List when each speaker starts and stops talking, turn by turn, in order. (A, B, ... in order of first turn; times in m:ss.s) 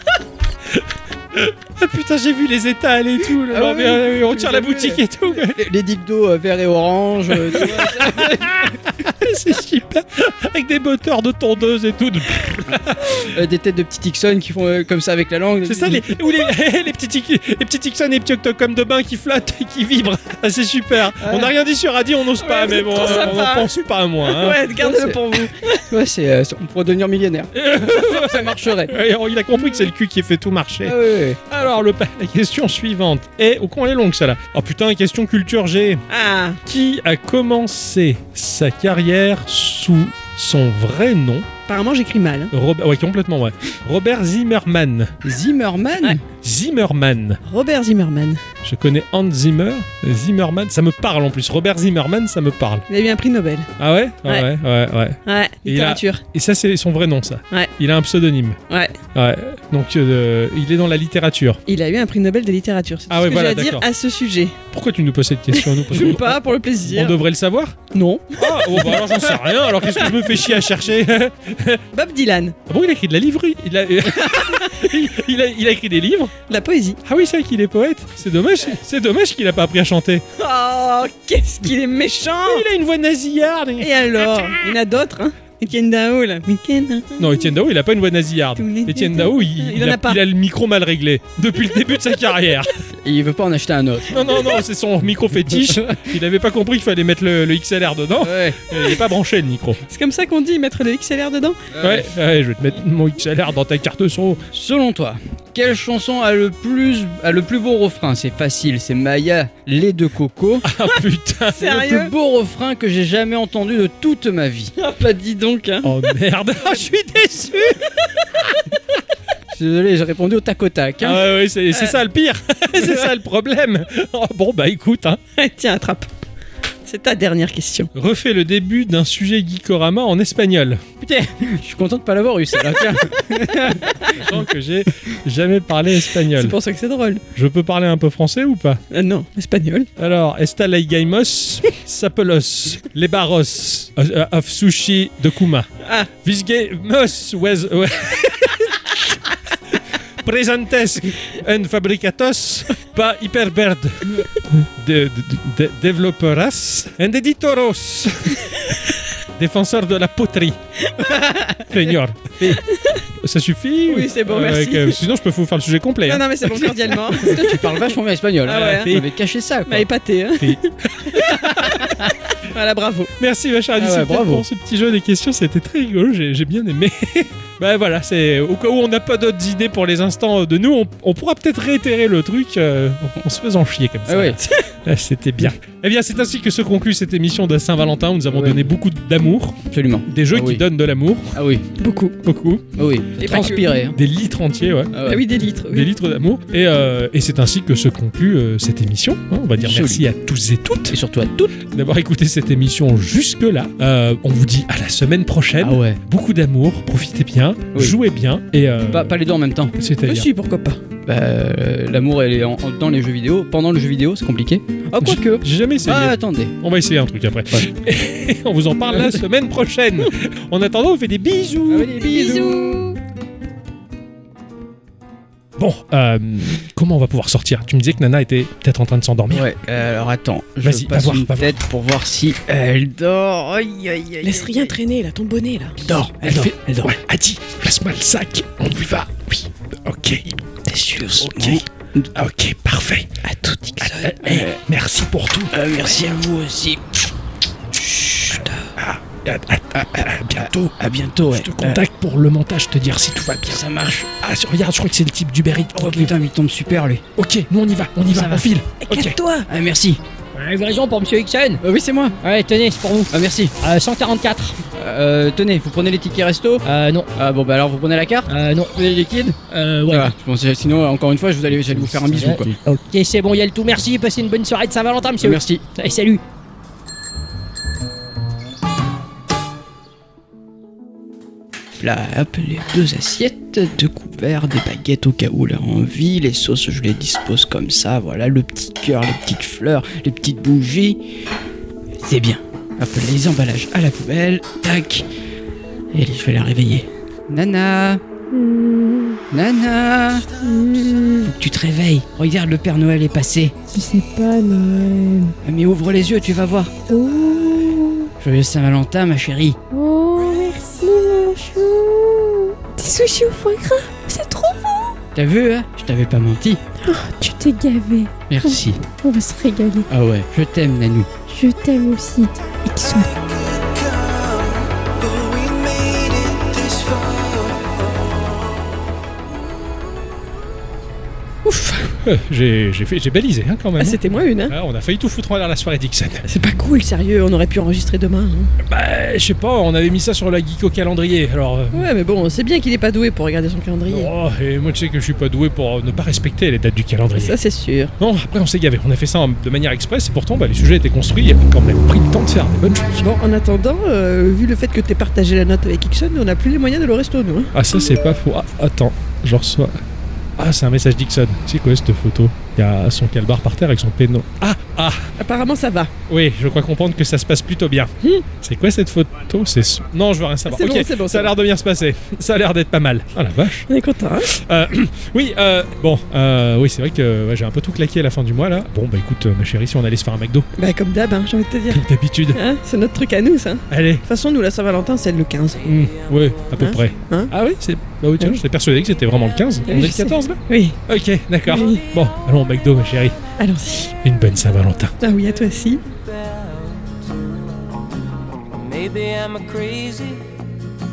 0:00.7-0:05.6 A
0:03.3-0:08.8 B
0:07.3-0:13.3 A
0:13.2-0:16.1 B
0:15.6-0:24.7 A
0:21.2-0:21.5 B
0:22.4-0:25.7 C
0:24.7-0:29.0 B
0:27.5-0:36.0 A
0:30.8-0:31.4 B
0:36.1-0:36.6 C
0:36.7-0:41.5 A
0:41.7-0:42.5 C
0:42.5-0:45.1 A
0:45.2-0:46.2 B
0:46.4-0:47.4 A
0:47.4-0:48.4 C
0:48.6-0:52.8 A
0:52.9-0:53.7 C
0:53.8-0:58.6 A
0:55.3-0:56.2 C
0:58.7-0:59.0 C
0:59.2-1:01.6 A
1:01.7-1:04.6 C
1:03.1-1:03.9 A
1:04.7-1:07.8 A
1:05.5-1:07.2 C
1:07.9-1:10.3 C
1:08.4-1:11.8 A
1:11.9-1:12.6 C
1:12.7-1:16.3 A
1:14.0-1:14.9 C
1:16.5-1:17.0 C
1:17.0-1:20.2 A
1:20.4-1:22.6 C
1:22.4-1:24.8 A
1:23.8-1:27.5 C
1:27.2-1:32.8 A
1:28.6-1:30.2 C
1:33.0-1:34.2 B
1:34.1-1:39.8 A
1:35.6-1:36.0 B
1:38.2-1:38.8 B
1:39.9-1:41.6 C
1:41.7-1:42.1 B
1:41.8-1:44.4 A
1:44.5-1:50.7 B
1:50.6-1:51.7 A
1:51.6-1:52.1 C
1:51.6-1:54.7 B
1:54.8-1:55.9 C
1:55.8-1:57.8 A
1:59.5-2:01.2 B
2:01.0-2:05.2 A
2:01.7-2:02.0 C
2:05.4-2:06.1 C
2:06.9-2:07.9 C
2:07.9-2:10.8 A
2:11.0-2:14.0 B
2:13.8-2:14.2 C
2:14.1-2:16.6 A
2:16.4-2:17.2 C
2:17.4-2:18.8 A
2:18.9-2:19.9 C
2:20.0-2:25.7 A
2:25.8-2:26.1 C
2:26.2-2:29.1 A
2:29.7-2:38.6 A
2:39.4-2:40.6 A
2:40.9-2:41.6 C
2:41.7-2:42.6 A
2:42.7-2:43.0 C
2:43.2-2:46.7 A
2:43.9-2:45.0 C
2:46.1-2:49.0 C
2:47.2-2:49.9 B
2:48.5-2:49.1 A
2:49.7-2:53.1 C
2:50.4-2:51.8 A
2:53.2-3:11.4 A
2:53.8-2:54.5 B
3:04.1-3:04.4 B
3:08.3-3:08.6 B
3:09.7-3:10.6 B
3:11.3-3:11.6 B
3:11.8-3:12.2 C
3:12.2-3:15.0 A
3:12.8-3:14.0 B
3:13.2-3:13.6 C
3:14.9-3:15.3 B
3:15.1-3:15.9 C
3:15.7-3:21.0 A
3:19.6-3:20.0 B
3:20.9-3:21.5 B
3:21.7-3:29.2 A
3:25.6-3:26.0 B
3:28.9-3:29.7 B
3:29.8-3:30.3 A
3:30.1-3:30.8 C
3:31.1-3:36.5 B
3:35.0-3:41.9 A
3:38.9-3:39.2 B
3:41.7-3:42.8 B
3:42.0-3:42.9 C
3:45.6-3:49.5 A
3:49.3-3:54.7 B
3:50.6-3:51.6 A
3:54.2-3:55.8 C
3:55.8-3:57.0 B
3:56.2-4:00.4 A
4:00.7-4:01.0 C
4:00.7-4:02.1 B
4:01.2-4:03.1 A
4:03.2-4:04.1 C
4:03.8-4:05.6 A
4:04.1-4:04.6 B
4:05.5-4:07.1 B
4:07.7-4:08.7 B
4:08.8-4:10.8 A
4:09.8-4:11.8 B
4:11.3-4:16.1 A
4:13.5-4:14.1 B
4:15.8-4:17.0 B
4:17.2-4:19.2 A
4:18.1-4:18.5 B
4:18.8-4:19.5 C
4:19.5-4:20.0 B
4:20.4-4:21.6 D
4:21.6-4:22.2 B
4:22.2-4:24.6 D
4:23.1-4:23.6 B
4:24.8-4:32.6 B
4:26.6-4:27.1 D
4:28.3-4:28.8 D
4:29.5-4:30.1 D
4:31.7-4:36.2 D
4:35.2-4:35.6 B
4:41.8-4:51.0 B
4:52.0-4:55.1 B
4:55.9-4:58.0 B
4:58.3-4:59.2 E
4:59.3-5:00.3 B
5:00.4-5:01.3 E
5:01.2-5:03.5 B
5:03.7-5:05.4 E
5:05.4-5:06.7 B
5:06.9-5:08.1 E
5:08.2-5:09.6 B
5:09.7-5:15.0 E
5:15.2-5:16.6 B
5:16.8-5:19.9 E
5:18.3-5:18.8 B
5:19.9-5:21.1 B
5:21.3-5:23.2 E
5:25.0-5:27.3 C
5:31.4-5:32.0 C
5:32.0-5:36.2 A
5:33.8-5:34.6 C
5:36.2-5:38.5 C
5:38.6-5:41.9 A
5:41.7-5:44.1 C
5:43.9-5:47.4 A
5:47.2-5:47.9 C
5:48.0-5:53.0 A
5:53.0-5:57.5 C
5:57.5-5:59.8 A
6:00.4-6:05.1 A
6:05.2-6:05.9 C
6:06.1-6:13.7 A
6:10.5-6:11.3 C
6:13.7-6:14.3 C
6:14.2-6:20.5 A
6:20.6-6:25.6 C
6:21.7-6:22.4 A
6:23.7-6:24.0 A
6:25.6-6:26.6 D
6:25.6-6:33.2 A
6:26.6-6:27.3 C
6:29.2-6:29.6 D
6:29.7-6:30.8 C
6:31.5-6:31.8 C
6:31.6-6:32.3 D
6:33.4-6:34.0 C
6:34.0-6:34.9 A
6:35.0-6:35.8 C
6:35.8-6:37.1 D
6:38.5-6:40.3 D